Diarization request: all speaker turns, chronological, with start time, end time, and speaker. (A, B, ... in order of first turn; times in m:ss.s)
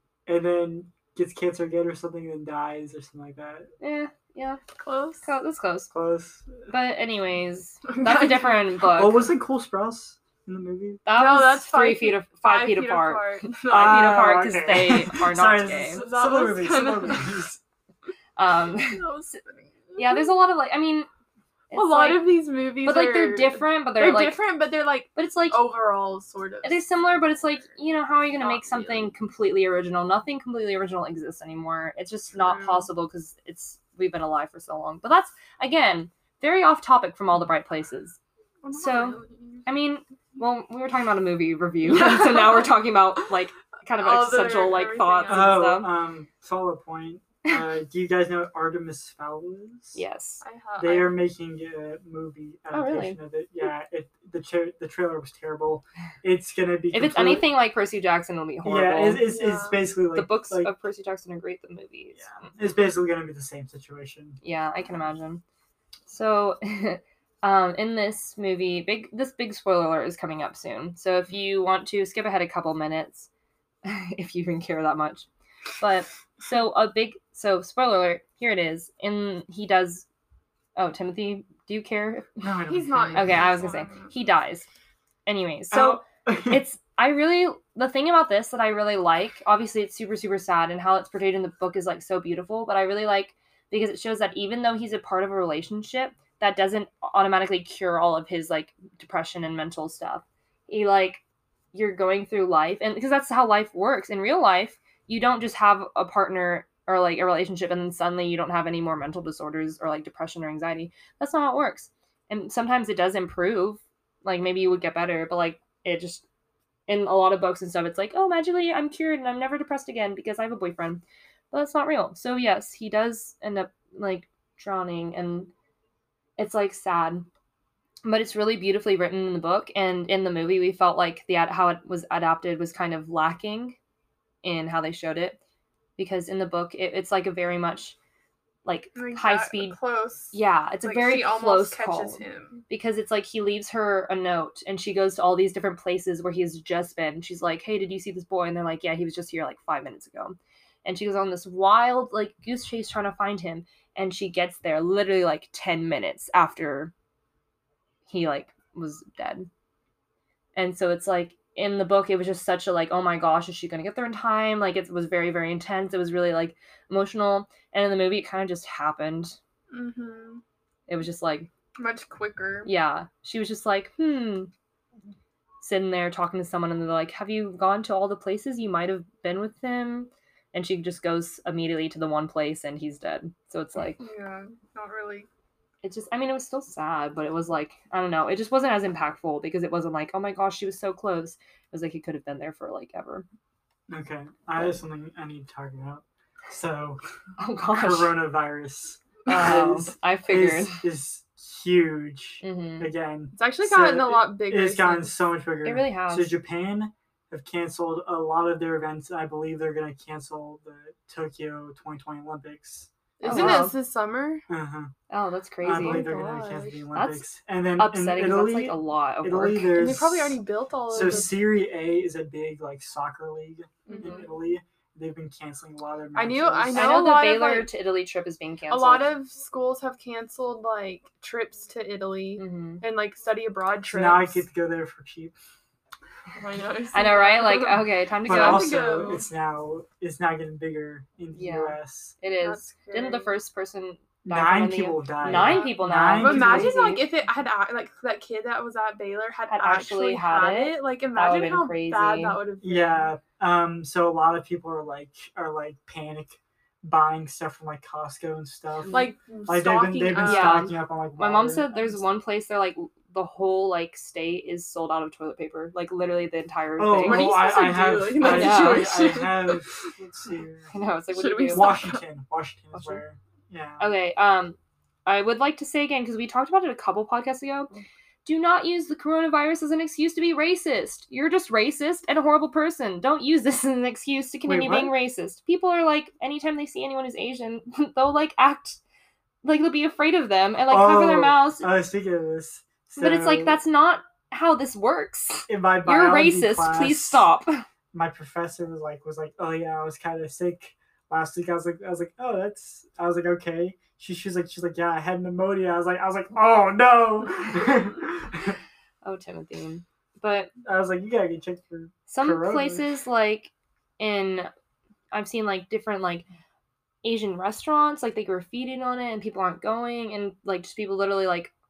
0:00.3-0:03.7 A
0:03.8-0:04.6 B
0:04.8-0:05.3 C
0:05.2-0:05.9 B
0:05.9-0:06.7 A
0:06.7-0:09.2 B
0:07.9-0:08.7 C
0:09.0-0:11.0 A
0:11.1-0:16.0 B
0:11.1-0:14.3 C
0:13.7-0:17.6 A
0:15.9-0:17.5 C
0:18.4-0:19.2 B
0:18.7-0:20.4 C
0:20.0-0:21.1 B
0:21.7-0:22.3 B
0:21.7-0:27.5 C
0:22.8-0:24.4 B
0:25.2-0:25.6 B
0:26.6-0:38.2 B
0:28.3-0:29.1 C
0:32.3-0:32.9 C
0:38.6-0:39.7 C
0:38.7-0:45.9 B
0:41.9-0:42.7 C
0:44.0-0:45.7 C
0:45.3-0:50.0 A
0:50.0-0:50.4 B
0:50.4-0:51.2 C
0:50.8-0:57.5 A
0:52.7-0:53.2 B
0:56.9-0:59.3 B
0:58.6-1:00.7 A
0:59.2-0:59.9 C
1:00.1-1:02.5 B
1:02.2-1:04.4 A
1:04.4-1:05.4 B
1:06.1-1:13.3 B
1:13.8-1:15.3 B
1:15.8-1:20.1 B
1:20.8-1:22.6 B
1:22.4-1:23.4 A
1:22.7-1:24.2 C
1:23.1-1:24.7 B
1:25.3-1:41.2 B
1:25.7-1:26.6 A
1:41.7-1:56.2 B
1:56.9-2:05.5 B
2:06.4-2:07.3 B
2:08.0-2:13.8 B
2:14.4-2:15.4 B
2:16.0-2:18.0 B
2:18.6-2:19.8 B
2:19.0-2:22.6 C
2:20.3-2:36.9 B
2:38.1-2:39.5 B
2:40.6-2:49.4 B
2:49.7-2:50.4 C
2:50.9-2:51.5 B
2:51.8-2:52.7 C
2:52.6-2:54.5 B
2:55.6-3:04.0 B
3:04.0-3:05.3 C
3:05.8-3:13.3 B
3:13.9-3:17.0 A
3:17.4-3:18.2 B
3:17.7-3:33.7 A
3:19.3-3:20.8 B
3:22.4-3:22.9 B
3:23.3-3:25.2 C
3:25.6-3:26.4 B
3:33.2-3:34.4 C
3:33.2-3:33.8 B
3:34.5-3:34.9 A
3:35.1-3:36.1 B
3:35.6-3:47.0 A
3:35.7-3:36.8 C
3:36.9-3:37.3 B
3:37.8-3:39.9 B
3:39.8-3:41.4 C
3:43.9-3:44.3 C
3:46.2-3:47.7 C
3:46.7-3:49.1 B
3:48.7-3:54.4 C
3:52.4-3:52.8 B
3:53.8-3:55.4 A
3:56.4-3:59.3 C
3:56.9-3:58.8 B
3:58.2-4:02.2 A
4:01.3-4:07.1 B
4:02.4-4:03.4 C
4:04.2-4:06.8 A
4:05.2-4:13.1 C
4:09.5-4:12.4 B
4:12.6-4:22.0 A
4:18.8-4:19.1 B
4:18.9-4:20.7 C
4:20.2-4:27.4 B
4:26.8-4:30.7 A
4:27.0-4:29.9 C
4:28.2-4:29.0 B
4:30.7-4:31.8 B
4:31.1-4:32.0 C
4:31.5-4:33.9 A
4:32.7-4:33.0 B
4:33.8-4:37.7 B
4:38.2-4:48.8 B
4:44.5-4:44.9 A
4:49.4-4:51.7 B
4:50.7-4:53.6 A
4:53.0-4:57.6 B
4:55.5-4:57.3 A
4:57.9-5:08.6 A
5:09.0-5:10.5 B
5:10.6-5:12.9 A
5:12.1-5:14.5 B
5:15.1-5:16.2 B
5:17.0-5:21.5 B